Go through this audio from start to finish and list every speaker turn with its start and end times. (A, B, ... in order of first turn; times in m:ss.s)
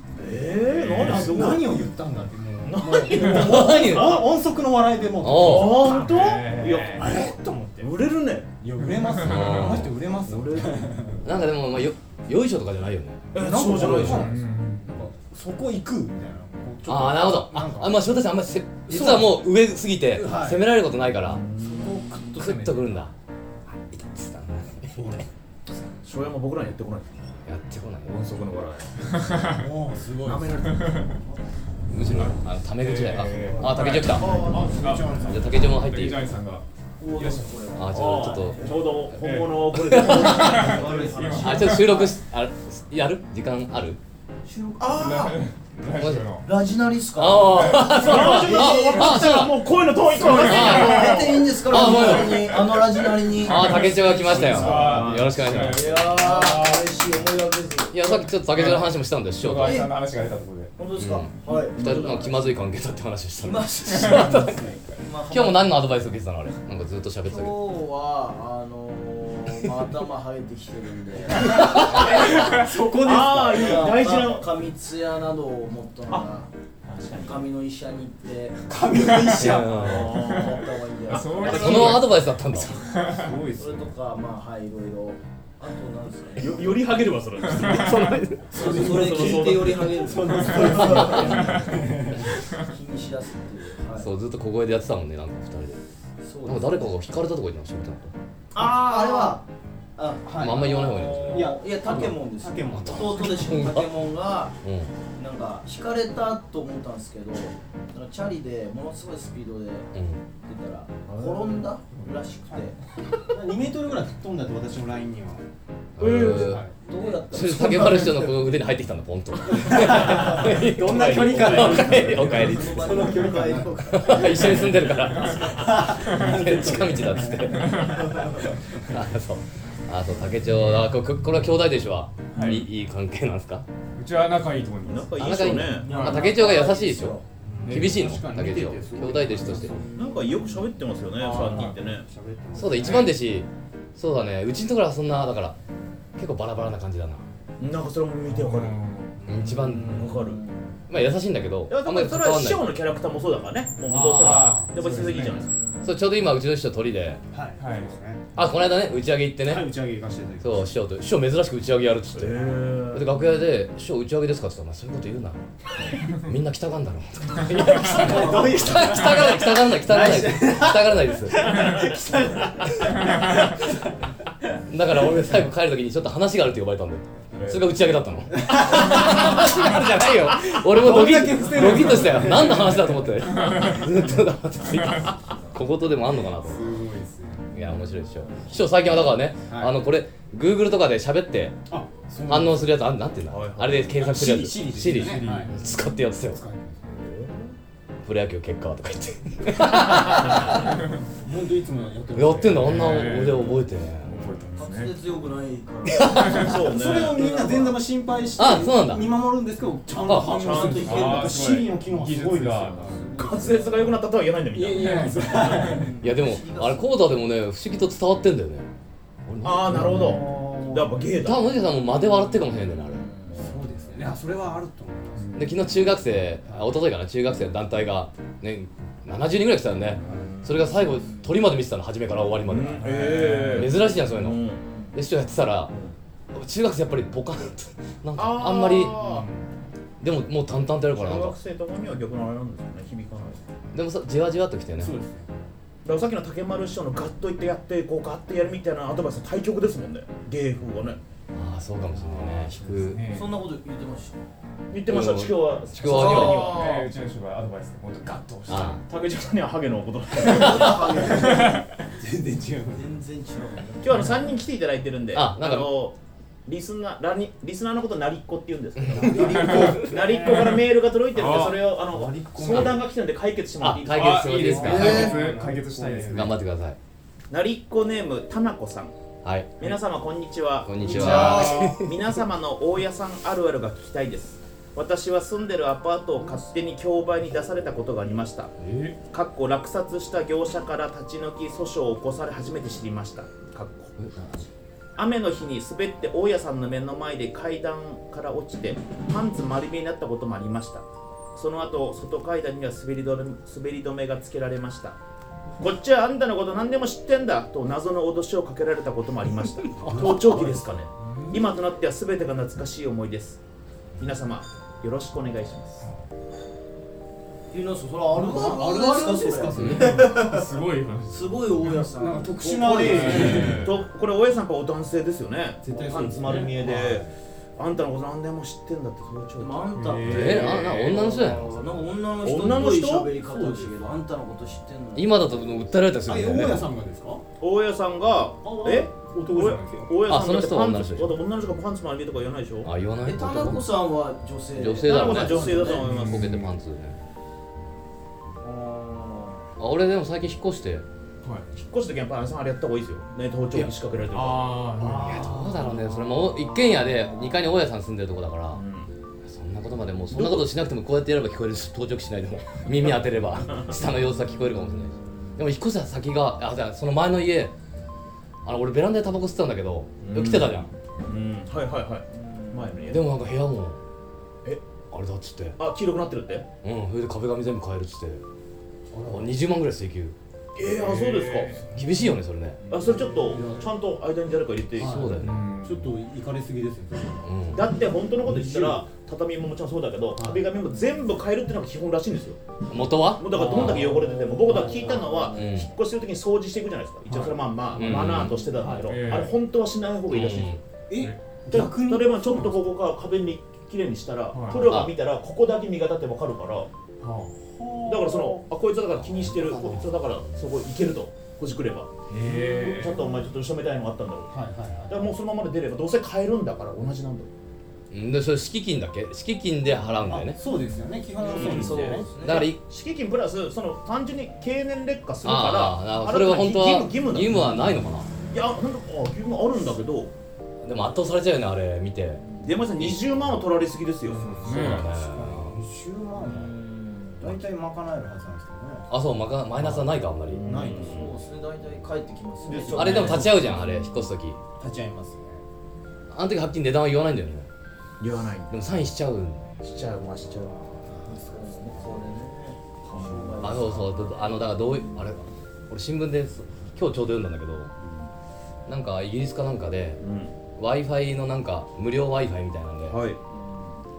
0:00.2-0:01.7 A
0:00.8-0:01.4 B
0:00.9-0:06.4 C
0:02.6-0:04.2 A
0:03.1-0:04.3 D
0:05.2-0:05.9 D
0:05.4-0:07.3 A
0:05.6-0:07.1 B
0:06.9-0:08.0 C
0:07.8-0:08.6 A
0:08.6-0:11.2 C
0:08.8-0:09.8 B
0:09.2-0:09.9 D
0:10.2-0:11.2 A
0:11.2-0:13.3 D
0:13.3-0:14.3 A
0:13.3-0:18.0 C
0:13.8-0:14.9 B
0:16.9-0:21.4 D
0:18.9-0:19.4 C
0:20.1-0:20.7 C
0:21.2-0:22.2 A
0:21.6-0:22.4 E
0:21.6-0:23.0 C
0:22.4-0:23.1 D
0:23.9-0:25.2 D
0:24.9-0:25.3 C
0:26.0-0:27.2 A
0:27.4-0:28.4 D
0:28.1-0:29.4 A
0:29.0-0:29.7 B
0:29.4-0:30.6 C
0:30.2-0:31.1 A
0:30.6-0:31.2 B
0:31.9-0:34.3 D
0:32.0-0:36.6 B
0:33.9-0:35.6 C
0:34.2-0:34.8 E
0:34.5-0:34.8 A
0:35.2-0:36.2 D
0:37.0-0:38.9 E
0:37.2-0:37.6 B
0:37.7-0:38.6 D
0:37.9-0:41.5 A
0:39.2-0:39.6 B
0:39.7-0:40.7 D
0:40.0-0:42.1 C
0:40.1-0:42.1 E
0:40.3-0:42.0 B
0:41.4-0:44.0 D
0:44.4-0:45.4 E
0:44.8-0:45.4 A
0:44.9-0:46.5 B
0:45.9-0:46.2 D
0:46.4-0:49.2 E
0:47.2-0:49.6 D
0:47.5-0:47.8 B
0:47.9-0:52.1 A
0:47.9-0:49.3 C
0:50.2-0:58.3 E
0:50.2-0:52.8 D
0:50.2-0:51.2 B
0:53.0-0:56.9 B
0:53.3-0:55.9 D
0:54.2-0:54.8 C
0:54.5-0:55.4 A
0:57.9-0:59.9 D
0:58.5-1:00.8 B
0:59.6-1:00.0 E
1:00.8-1:02.6 E
1:01.0-1:04.7 D
1:03.4-1:05.9 E
1:05.3-1:07.6 D
1:07.2-1:16.5 E
1:11.4-1:14.2 C
1:11.4-1:12.1 D
1:12.4-1:12.6 B
1:13.0-1:14.5 A
1:16.8-1:17.4 A
1:17.2-1:18.6 E
1:18.7-1:20.2 C
1:19.0-1:19.6 B
1:19.2-1:22.0 E
1:19.3-1:20.2 D
1:19.8-1:22.0 A
1:20.2-1:23.5 B
1:21.4-1:22.8 D
1:23.0-1:23.9 C
1:23.0-1:26.8 E
1:26.4-1:30.2 A
1:27.6-1:28.2 B
1:27.6-1:28.4 D
1:28.5-1:32.4 C
1:28.5-1:34.1 E
1:30.6-1:31.5 D
1:31.2-1:31.8 B
1:32.4-1:32.7 B
1:34.0-1:35.8 D
1:36.2-1:36.9 E
1:36.4-1:38.1 D
1:38.5-1:39.4 E
1:38.6-1:39.4 A
1:38.6-1:39.4 C
1:40.0-1:44.5 E
1:40.2-1:43.3 C
1:40.4-1:42.1 D
1:42.7-1:43.9 D
1:44.6-1:44.9 D
1:45.2-1:49.9 E
1:49.9-1:50.2 D
1:50.4-1:52.8 E
1:51.1-1:51.7 A
1:53.3-1:55.4 C
1:56.0-1:56.6 D
1:56.0-1:56.6 A
1:56.2-1:57.2 C
1:56.8-1:58.6 E
1:57.3-2:13.6 D
1:59.5-2:08.6 C
2:00.9-2:05.7 E
2:05.1-2:05.4 B
2:06.0-2:06.4 B
2:07.5-2:08.1 B
2:10.5-2:10.9 B
2:12.3-2:12.7 B
2:14.0-2:15.3 B
2:14.8-2:16.0 A
2:15.2-2:19.8 D
2:15.7-2:17.2 E
2:15.9-2:16.2 B
2:17.4-2:20.2 C
2:17.6-2:18.1 B
2:19.9-2:22.0 A
2:21.2-2:23.1 C
2:21.4-2:21.7 B
2:22.5-2:25.6 D
2:22.8-2:23.2 B
2:26.2-2:27.2 D
2:27.6-2:28.8 A
2:28.3-2:29.3 B
2:29.2-2:30.1 C
2:29.2-2:30.1 D
2:29.7-2:30.4 A
2:29.7-2:30.7 E
2:30.9-2:32.6 D
2:31.7-2:35.6 A
2:33.9-2:34.6 D
2:33.9-2:35.4 B
2:34.3-2:34.7 C
2:35.3-2:35.9 E
2:35.8-2:37.2 D
2:37.3-2:38.2 C
2:37.6-2:37.9 B
2:38.4-2:39.7 D
2:39.4-2:40.7 C
2:40.4-2:45.4 D
2:42.2-2:43.2 A
2:46.0-2:51.7 D
2:47.6-2:47.9 B
2:47.7-2:53.8 C
2:51.5-2:51.9 B
2:53.0-2:53.4 B
2:54.7-3:06.7 D
2:58.3-2:59.8 C
3:00.6-3:03.6 C
3:03.3-3:03.8 B
3:06.4-3:07.5 C
3:07.5-3:11.6 D
3:09.5-3:09.8 C
3:11.7-3:12.7 C
3:12.3-3:16.4 D
3:13.3-3:14.0 A
3:13.9-3:17.0 C
3:15.0-3:15.6 B
3:17.0-3:17.5 A
3:18.0-3:20.6 D
3:21.1-3:23.0 C
3:22.1-3:24.2 D
3:22.6-3:24.9 B
3:24.6-3:27.8 E
3:25.9-3:26.5 D
3:26.2-3:26.5 B
3:26.3-3:27.3 A
3:26.5-3:33.7 C
3:28.4-3:29.2 D
3:30.0-3:30.7 D
3:30.2-3:31.5 E
3:30.3-3:31.0 A
3:30.7-3:33.0 B
3:32.8-3:33.8 E
3:33.2-3:35.6 A
3:34.5-3:36.0 C
3:34.8-3:35.8 B
3:35.2-3:36.9 E
3:36.0-3:38.7 D
3:39.2-3:40.2 D
3:39.4-3:41.5 A
3:39.6-3:41.1 C
3:41.2-3:43.0 D
3:42.7-3:43.6 E
3:43.3-3:45.4 C
3:45.2-3:45.5 B
3:45.4-3:55.7 D
3:50.0-3:50.8 A
3:50.8-3:51.2 E
3:52.5-3:54.6 A
3:52.6-3:53.7 C
3:55.7-3:55.9 A
3:56.3-3:59.0 D
3:58.2-3:59.3 A
3:59.0-3:59.4 C
4:00.0-4:01.4 D
4:00.9-4:03.4 A
4:03.7-4:04.9 D
4:04.8-4:05.4 C
4:05.8-4:11.0 A
4:11.3-4:13.0 D
4:12.6-4:13.4 B
4:13.0-4:14.2 E
4:14.7-4:16.9 A
4:14.9-4:16.6 D
4:15.8-4:16.6 E
4:16.0-4:18.8 B
4:18.5-4:18.8 D
4:18.8-4:20.8 A
4:20.2-4:21.6 E
4:20.2-4:20.8 D
4:20.9-4:23.0 C
4:21.2-4:21.6 B
4:22.7-4:24.4 E
4:23.8-4:35.1 A
4:25.1-4:25.7 D
4:28.8-4:29.8 D
4:28.9-4:30.5 C
4:29.1-4:29.8 E
4:29.4-4:30.6 B
4:31.2-4:31.6 B
4:31.9-4:32.8 C
4:32.4-4:32.8 D
4:33.6-4:35.2 D
4:33.9-4:36.4 B
4:34.5-4:36.3 C
4:34.6-4:35.2 E
4:36.1-4:36.8 D
4:37.3-4:38.9 A
4:39.2-4:39.8 D
4:39.6-4:48.5 A
4:40.6-4:42.1 D
4:40.8-4:41.7 C
4:41.1-4:41.4 B
4:41.1-4:41.5 E
4:48.6-4:49.0 D
4:49.1-4:53.9 A
4:54.0-4:54.3 D
4:55.0-5:05.0 A
5:05.6-5:13.4 A
5:09.8-5:10.7 C
5:14.0-5:15.9 A
5:17.5-5:20.1 E
5:18.1-5:20.5 C
5:19.6-5:21.8 B
5:21.1-5:23.6 E
5:21.7-5:23.7 C
5:22.8-5:23.7 B
5:23.2-5:30.0 A
5:25.6-5:27.1 C
5:29.4-5:35.2 E
5:29.7-5:30.7 B
5:30.0-5:31.7 D
5:32.2-5:33.1 A
5:33.2-5:33.8 C
5:34.9-5:36.7 D
5:36.1-5:37.2 C
5:37.4-5:42.7 A
5:38.4-5:40.0 C
5:40.1-5:41.2 D
5:42.6-5:43.7 D
5:43.0-5:45.9 E
5:44.5-5:47.0 D
5:44.8-5:46.4 A
5:45.8-5:46.5 B
5:48.4-5:49.4 E
5:49.6-5:50.8 D
5:51.2-5:51.5 B
5:51.5-5:54.9 A
5:54.1-5:55.4 B
5:54.8-5:55.4 C
5:54.9-5:58.6 D
5:58.5-5:58.9 A
5:59.2-6:07.5 D
6:00.2-6:00.4 A
6:03.5-6:03.8 A
6:08.4-6:10.7 D
6:10.0-6:13.1 A
6:12.2-6:12.8 E
6:12.9-6:13.8 D
6:14.9-6:15.6 D
6:15.6-6:16.4 A
6:16.6-6:18.2 D
6:18.9-6:19.4 C
6:19.1-6:20.1 D
6:20.6-6:21.6 A
6:20.6-6:21.8 B
6:21.7-6:22.6 D
6:22.7-6:25.1 A
6:22.7-6:23.7 C
6:24.8-6:25.4 D
6:24.8-6:27.6 C
6:25.2-6:26.0 B
6:27.2-6:27.7 D
6:27.5-6:32.4 A
6:28.2-6:28.8 C
6:30.1-6:30.4 C
6:32.7-6:33.9 D
6:33.2-6:40.6 A
6:33.3-6:35.0 C
6:33.9-6:35.6 E
6:35.3-6:35.7 D
6:37.7-6:38.3 D
6:38.8-6:39.3 B
6:40.1-6:40.6 D
6:40.9-6:42.6 C
6:41.5-6:46.7 A
6:44.3-6:44.7 B
6:44.5-6:44.9 D
6:47.0-6:47.4 B
6:47.5-6:48.5 C
6:47.8-6:51.9 A
6:49.2-6:50.0 D
6:52.1-6:53.0 B
6:52.2-6:52.9 C
6:52.6-6:54.3 A
6:54.3-6:55.1 C
6:54.9-6:57.3 A
6:57.9-7:00.4 D
7:00.1-7:02.1 C
7:01.2-7:02.5 E
7:01.2-7:07.4 A
7:02.2-7:02.6 D
7:05.2-7:08.1 D
7:08.3-7:10.1 A
7:10.6-7:12.2 D
7:12.2-7:12.5 E
7:12.4-7:14.7 A
7:12.8-7:13.2 D
7:14.2-7:14.9 B
7:14.4-7:15.6 D
7:14.9-7:16.6 C
7:16.2-7:17.4 E
7:17.2-7:18.9 C
7:18.9-7:20.4 D
7:19.6-7:21.1 C
7:20.3-7:21.1 A
7:20.8-7:23.5 E
7:22.4-7:23.5 C
7:22.7-7:24.4 D
7:22.9-7:23.2 A
7:24.6-7:25.4 C
7:26.1-7:27.5 D
7:28.0-7:28.5 A
7:28.5-7:29.5 D
7:29.6-7:30.8 A
7:30.9-7:31.8 C
7:31.0-7:35.2 E
7:32.8-7:33.7 A
7:33.4-7:35.2 D
7:35.7-7:37.7 D
7:37.8-7:38.1 A
7:38.7-7:40.0 D
7:40.0-7:40.3 A
7:40.6-7:43.0 D
7:42.9-7:43.2 A
7:43.3-7:43.8 E